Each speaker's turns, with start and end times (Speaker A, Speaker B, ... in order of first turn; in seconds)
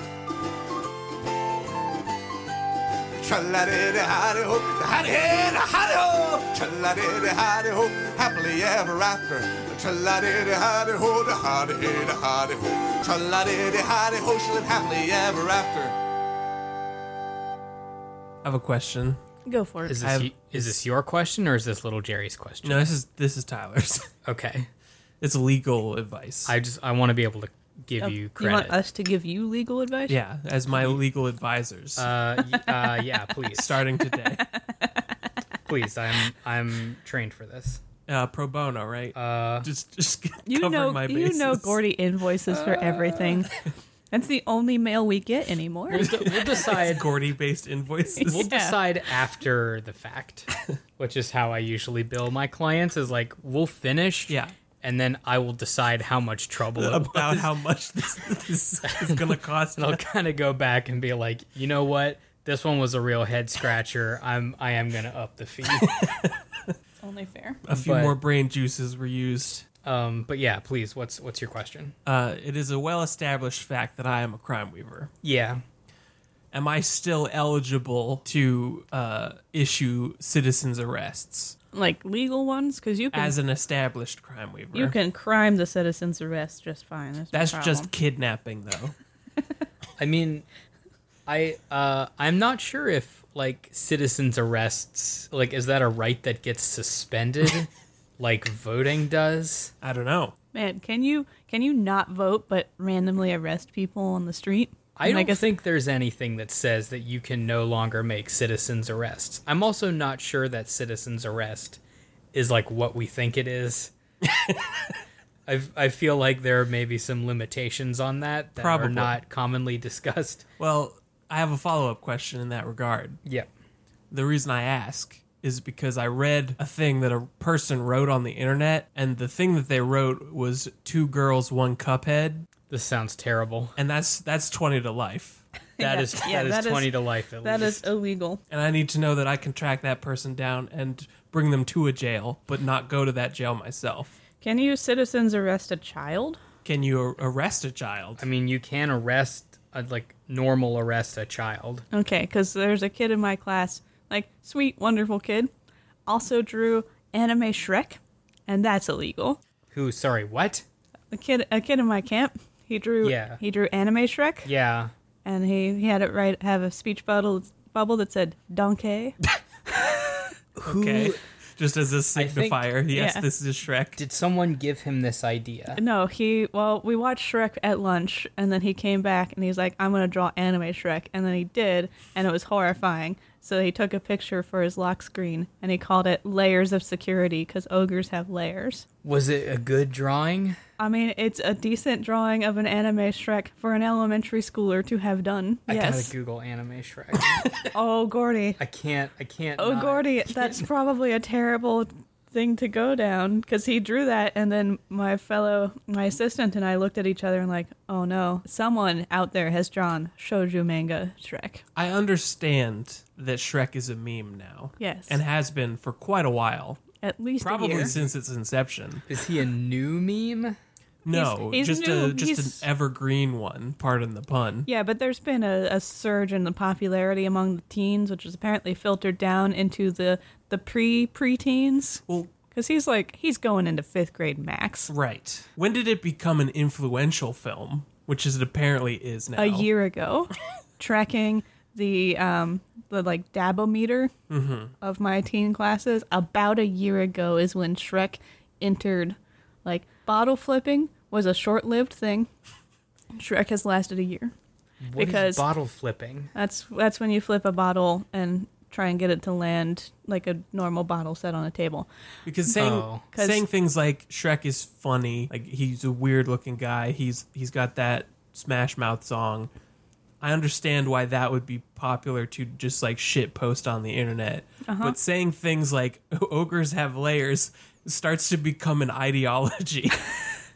Speaker A: 3.2-15.9
Speaker B: 18.4-19.2, 20.0-20.8, 22.6-24.1, 25.2-26.5, 30.1-32.1, 33.5-34.4, 38.1-41.8, 45.9-48.4, 54.3-54.5, 56.7-60.0, 65.7-66.7, 67.7-69.6, 72.0-75.1, 76.5-81.5, 83.1-85.0, 87.3-88.9, 99.8-100.3, 114.3-114.9, 118.5-119.1, 120.6-123.2, 124.1-132.5, 133.8-135.4, 138.5-144.1, 146.6-148.2, 170.6-174.0, 211.8-216.8, 217.4-219.0, 221.0-224.7, 234.9-239.7, 244.3-244.7, 262.2-269.5, 270.2-280.1
Speaker C: 19.4-20.0, 28.0-30.2, 34.4-35.1, 40.4-43.6, 44.1-46.1, 48.2-48.8, 67.0-67.6, 81.7-83.3, 84.7-87.9, 100.5-105.5, 135.8-138.4, 144.4-146.4, 151.9-155.5, 156.1-159.4, 161.1-164.5, 165.2-170.3, 172.9-173.2, 175.7-188.8, 190.8-196.1, 197.7-198.6, 199.6-211.6, 214.8-215.2, 217.0-217.9, 221.1-222.6, 224.7-234.9, 239.3-244.1, 244.8-252.3, 253.1-254.3, 254.9-255.4, 256.3-261.9, 263.1-263.4, 274.6-274.9
Speaker D: 19.9-22.9, 24.2-24.7, 26.4-28.8, 30.7-31.0, 31.9-33.8, 35.6-37.8, 39.1-39.7, 42.5-43.5, 45.9-47.0, 48.2-57.5, 58.9-65.9, 67.7-68.2, 69.8-71.9, 75.2-75.6, 90.0-90.4, 91.3-99.7, 105.0-111.8, 112.3-113.9, 115.5-120.4, 132.7-133.7, 135.8-137.9, 148.2-151.8, 159.7-160.6, 163.0-163.4, 164.4-164.9, 170.6-171.2, 172.1-172.7, 174.0-175.8, 189.0-190.6, 195.7-197.5, 198.6-200.7, 217.7-218.1, 219.1-220.5, 254.8-256.3, 262.5-263.1